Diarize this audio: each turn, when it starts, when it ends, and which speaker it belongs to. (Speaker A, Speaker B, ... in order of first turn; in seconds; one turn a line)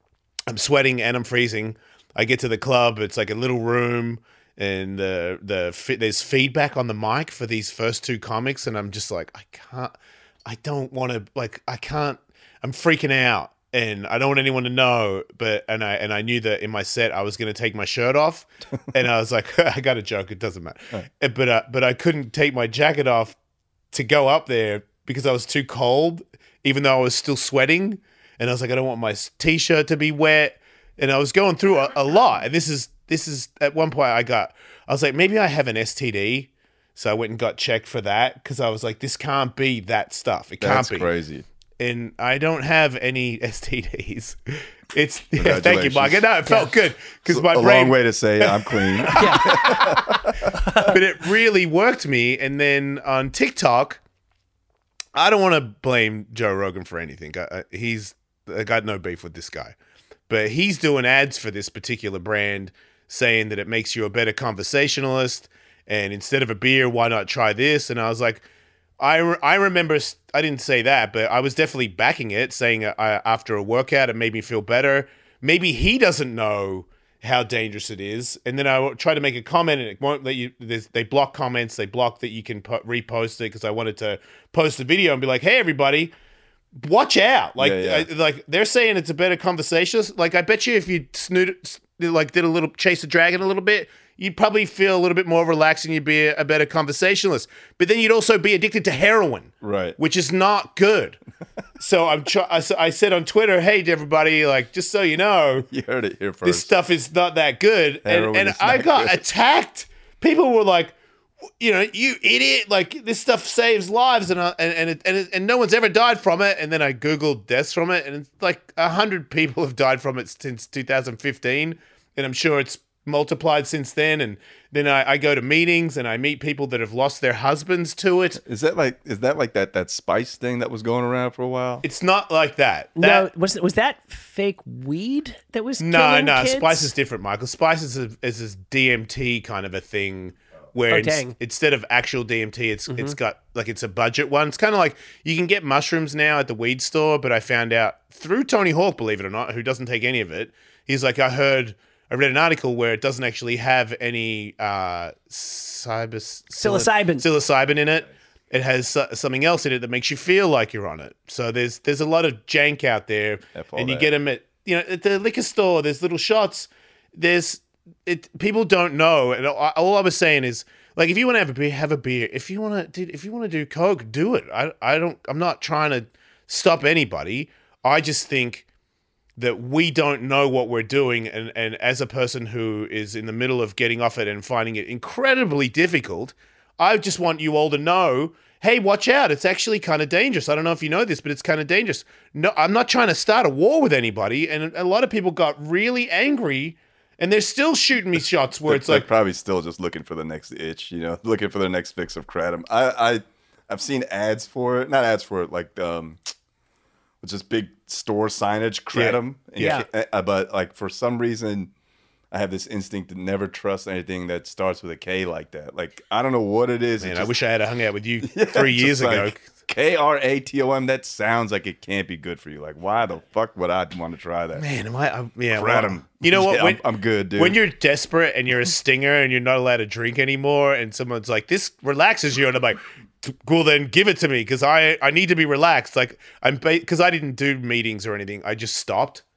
Speaker A: 0.5-9.9
Speaker A: 10.4-23.4
Speaker A: 23.9-41.1
Speaker B: 40.6-41.4
Speaker A: 41.8-50.1
Speaker B: 45.3-46.2
Speaker B: 47.2-50.9
Speaker C: 49.2-49.7
Speaker A: 50.8-54.0
Speaker A: 55.1-59.7
Speaker A: 60.3-68.4
Speaker A: 69.0-86.1
Speaker A: 86.8-101.2
Speaker B: 87.6-88.1
Speaker B: 99.6-100.0
Speaker A: 101.8-105.7
Speaker B: 105.7-106.7
Speaker A: 106.4-110.9
Speaker B: 108.0-109.2
Speaker A: 111.6-128.4
Speaker B: 128.3-131.8
Speaker A: 131.8-133.3
Speaker C: 133.0-136.9
Speaker A: 135.8-178.6
Speaker C: 140.9-141.3
Speaker C: 142.9-143.2
Speaker C: 156.6-157.3
Speaker B: 163.5-164.1
Speaker A: 179.4-199.1
Speaker B: 198.7-206.3
Speaker B: 207.2-211.7
Speaker A: 208.9-209.8
Speaker B: 212.3-217.3
Speaker A: 217.0-219.4
Speaker B: 218.2-224.7
Speaker A: 224.5-226.8
Speaker B: 225.5-227.6
Speaker A: 227.3-239.2